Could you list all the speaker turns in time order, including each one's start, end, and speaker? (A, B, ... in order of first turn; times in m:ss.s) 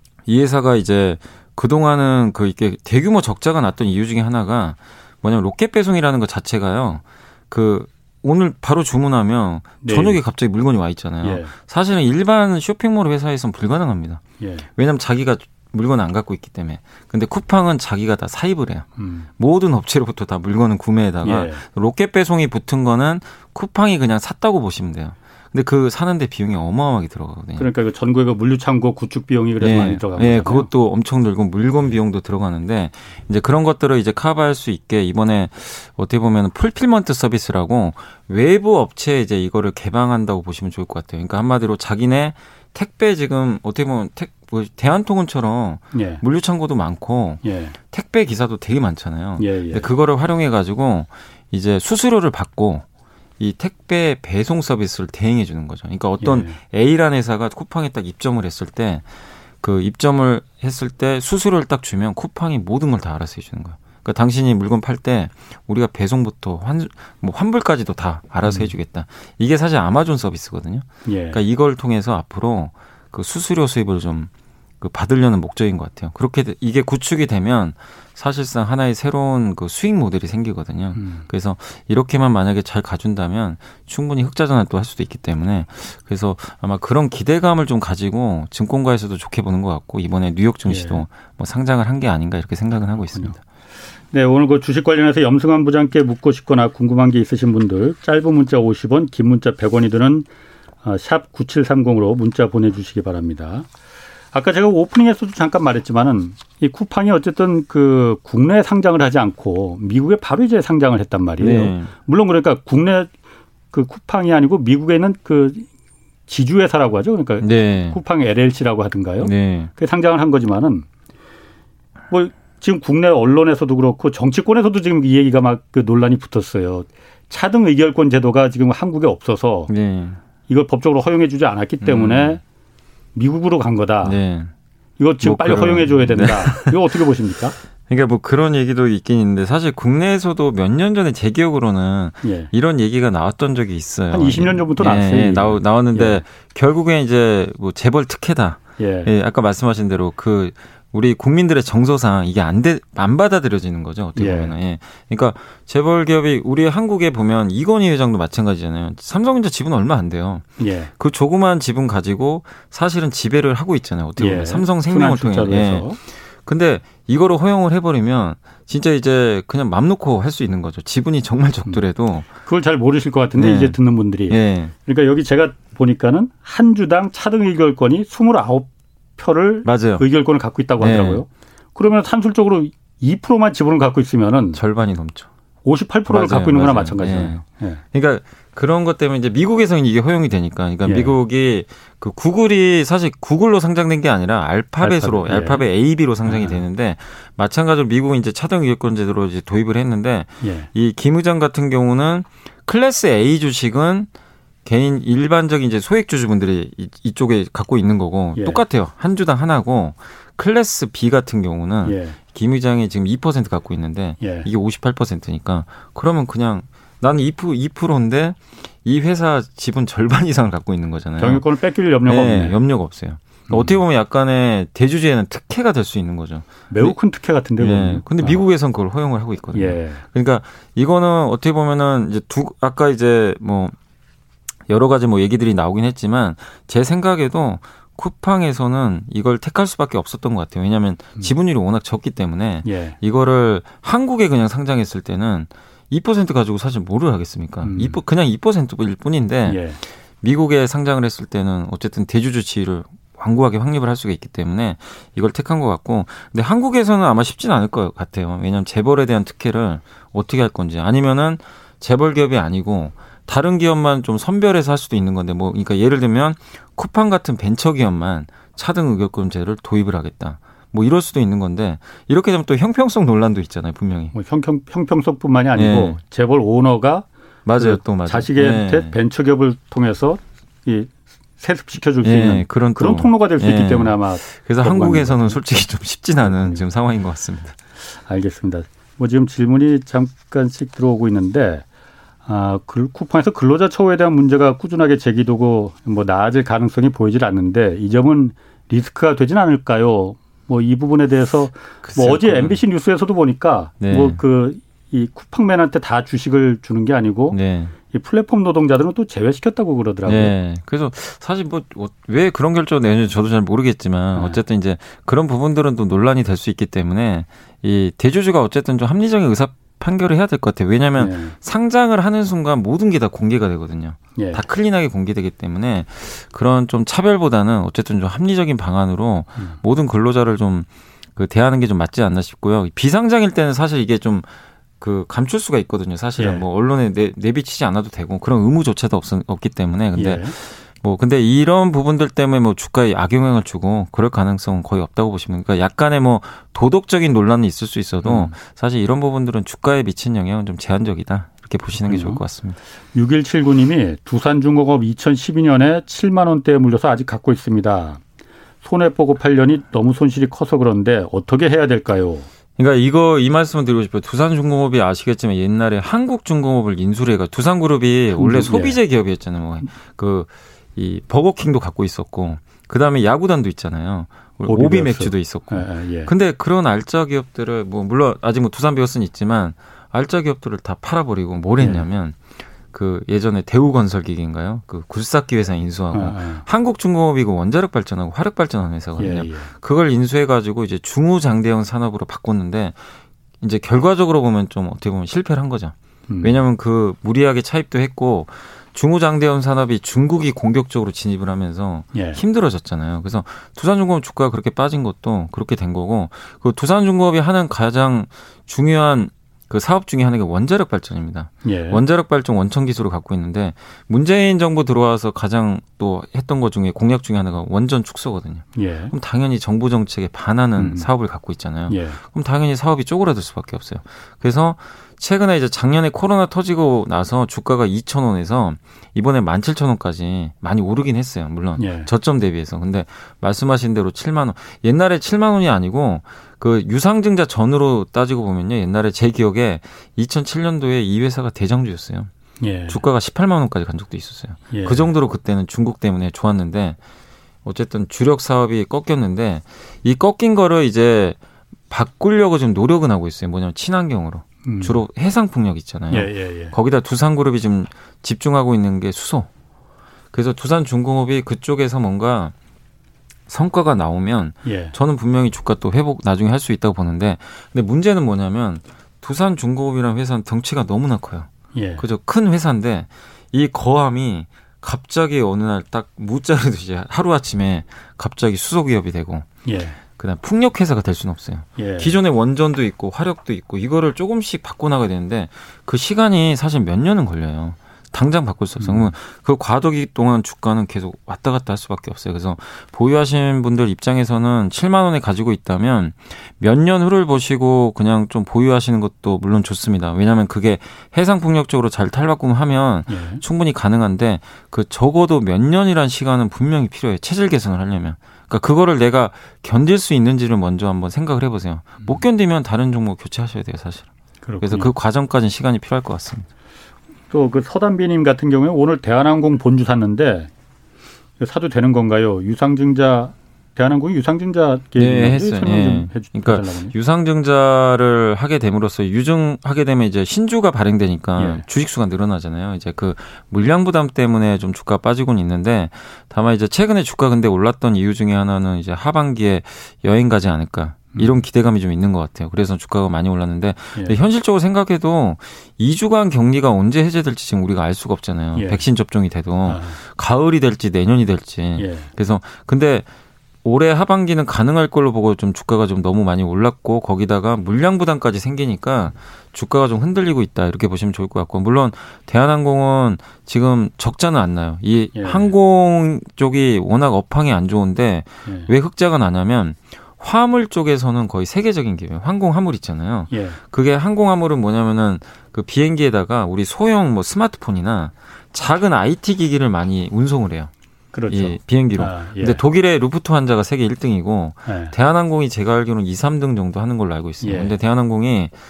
0:00.2-0:14.2 A
0:09.8-0:10.2 B
0:11.2-0:11.5 B
0:14.4-0:14.7 B
0:14.8-0:18.9 A
0:19.0-0:19.3 B
0:19.4-0:27.6 A
0:21.2-0:21.6 B
0:27.6-0:30.7 B
0:29.6-0:52.8 A
0:45.9-0:46.2 B
0:47.4-0:47.8 B
0:49.4-0:49.9 B
0:53.4-0:59.0 A
0:56.2-0:56.6 B
0:59.6-1:14.3 A
1:08.4-1:08.7 B
1:11.0-1:11.4 B
1:14.8-1:33.4 A
1:20.9-1:21.2 B
1:30.7-1:31.0 B
1:34.1-1:40.3 B
1:40.8-1:43.7 B
1:44.3-1:53.1 B
1:51.4-1:51.9 A
1:53.7-1:55.7 B
1:56.3-2:00.8 B
1:57.4-1:58.0 A
1:59.2-1:59.7 A
2:02.1-2:09.7 B
2:09.7-2:10.2 A
2:10.5-2:12.4 B
2:11.8-2:12.4 A
2:13.1-2:14.2 B
2:14.0-2:14.5 A
2:15.0-2:17.6 B
2:15.2-2:16.8 A
2:17.9-2:52.3 A
2:22.2-2:22.5 B
2:24.1-2:26.2 B
2:28.8-2:29.1 B
2:34.2-2:34.5 B
2:40.6-2:40.9 B
2:44.2-2:46.0 B
2:52.4-3:04.6 B
2:53.4-2:53.8 A
2:54.3-2:54.7 A
2:59.6-3:00.0 A
3:00.8-3:01.2 A
3:04.5-3:05.3 A
3:05.6-3:07.8 B
3:06.1-3:24.1 A
3:10.8-3:11.1 B
3:14.8-3:15.6 B
3:16.2-3:16.6 B
3:20.4-3:20.7 B
3:24.6-3:41.4 A
3:28.4-3:28.6 B
3:31.8-3:32.2 B
3:34.2-3:34.5 B
3:41.2-3:42.6 B
3:42.0-3:47.0 A
3:43.5-3:43.8 B
3:46.7-3:48.4 B
3:47.6-3:53.8 A
3:49.5-3:50.0 B
3:54.7-4:09.6 A
4:02.6-4:03.0 B
4:07.6-4:08.0 B
4:09.5-4:09.8 B
4:10.2-4:34.1 A
4:34.1-4:45.6 B
4:35.6-4:36.0 A
4:37.4-4:39.0 A
4:42.0-4:47.6 A
4:46.2-4:46.6 B
4:47.9-4:51.6 B
4:52.2-5:07.4 B
5:01.8-5:02.6 A
5:03.8-5:04.2 A
5:07.3-5:07.7 A
5:07.9-5:10.3 B
5:10.0-5:34.3 A
5:14.1-5:14.4 B
5:21.0-5:21.3 B
5:24.1-5:24.4 B
5:34.8-5:52.6 A
5:36.2-5:36.4 B
5:39.9-5:40.3 B
5:48.0-5:48.3 B
5:51.8-5:52.2 B
5:52.9-5:58.0 B
5:58.6-6:02.3 B
6:02.6-6:22.2 A
6:08.2-6:08.8 B
6:14.5-6:16.1 B
6:21.6-6:21.8 B
6:22.7-6:32.8 A
6:25.9-6:26.4 B
6:29.0-6:29.5 B
6:33.4-7:22.1 A
6:36.1-6:36.4 B
6:41.9-6:42.2 B
6:51.4-6:51.8 B
6:58.5-6:58.9 B
7:00.6-7:00.9 B
7:01.7-7:02.0 B
7:11.6-7:11.9 B
7:22.4-7:22.8 B
7:22.7-7:26.8 A
7:24.5-7:24.9 B
7:27.4-7:31.2 A
7:31.7-7:39.3 A
7:34.4-7:34.8 B
7:35.9-7:36.5 B
7:40.1-7:42.3 A
7:43.3-7:59.3 A
7:44.4-7:44.7 B
7:51.5-7:51.8 B
7:59.4-7:59.8 B
7:59.9-8:33.9 A
8:01.6-8:02.0 B
8:08.6-8:08.9 B
8:22.9-8:23.2 B
8:34.2-8:34.7 B
8:34.4-8:36.3 A
8:37.1-8:40.3 B
8:41.2-8:46.7 B
8:44.8-9:12.8 A
8:51.2-8:51.4 B
9:00.9-9:01.2 B
9:08.3-9:08.6 B
9:09.4-9:09.8 B
9:11.6-9:11.9 B
9:13.4-9:40.5 A
9:24.9-9:25.3 B
9:28.2-9:28.5 B
9:33.1-9:33.4 B
9:40.9-9:42.4 B
9:41.1-9:48.3 A
9:44.5-9:44.7 B
9:47.2-9:47.5 B